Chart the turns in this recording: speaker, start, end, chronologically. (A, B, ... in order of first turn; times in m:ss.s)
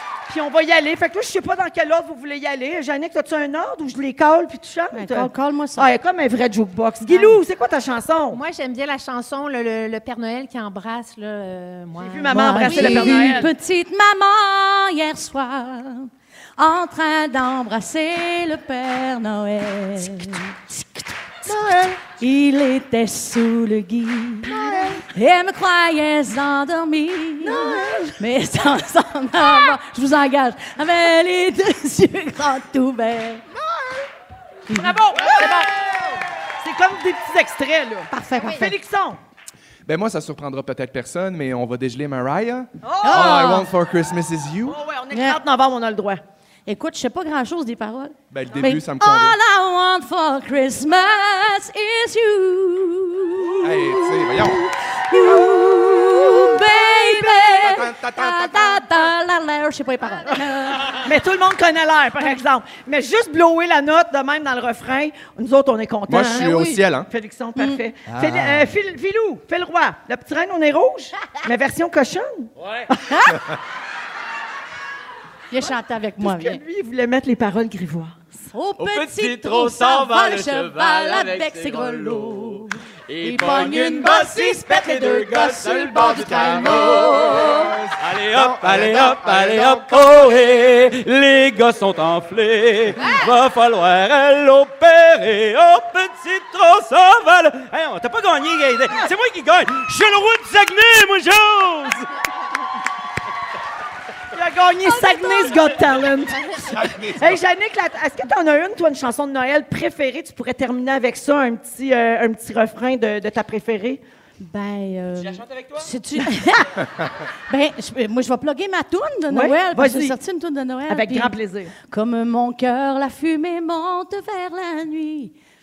0:00.3-0:08.4 A
0:04.9-0:05.9 B
0:08.3-0:13.5 C
0:12.0-0:13.5 A
0:12.3-0:21.1 B
0:21.4-0:22.0 A
0:22.2-0:24.5 B
0:24.5-0:25.0 A
0:24.5-0:25.0 D
0:25.1-0:33.4 B
0:27.4-0:28.1 A
0:33.6-0:34.0 D
0:34.7-0:35.0 B
0:34.7-0:36.0 A
0:35.3-0:35.6 D
0:36.6-0:39.2 A
0:38.1-0:38.7 B
0:38.4-0:38.7 C
0:39.9-0:44.8 D
0:42.8-0:43.5 A
0:43.0-0:43.7 B
0:44.6-0:46.2 A
0:45.1-0:45.4 B
0:46.7-1:01.1 B
0:48.3-0:49.4 D
0:53.6-0:54.6 D
0:56.5-0:57.7 A
0:57.4-0:59.1 D
1:01.0-1:12.5 A
1:06.1-1:07.1 D
1:06.4-1:06.8 C
1:07.6-1:07.8 B
1:08.1-1:08.7 D
1:12.6-1:12.9 E
1:13.1-1:13.4 B
1:15.5-1:16.6 B
1:15.6-1:18.3 A
1:18.5-1:27.8 B
1:18.8-1:27.4 E
1:25.7-1:30.2 D
1:28.0-1:42.1 E
1:44.3-1:54.0 A
1:46.6-1:47.4 D
1:54.4-1:56.8 B
1:55.2-1:55.9 E
1:57.5-2:01.3 B
1:59.3-2:00.2 A
2:00.9-2:01.7 A
2:01.8-2:05.3 B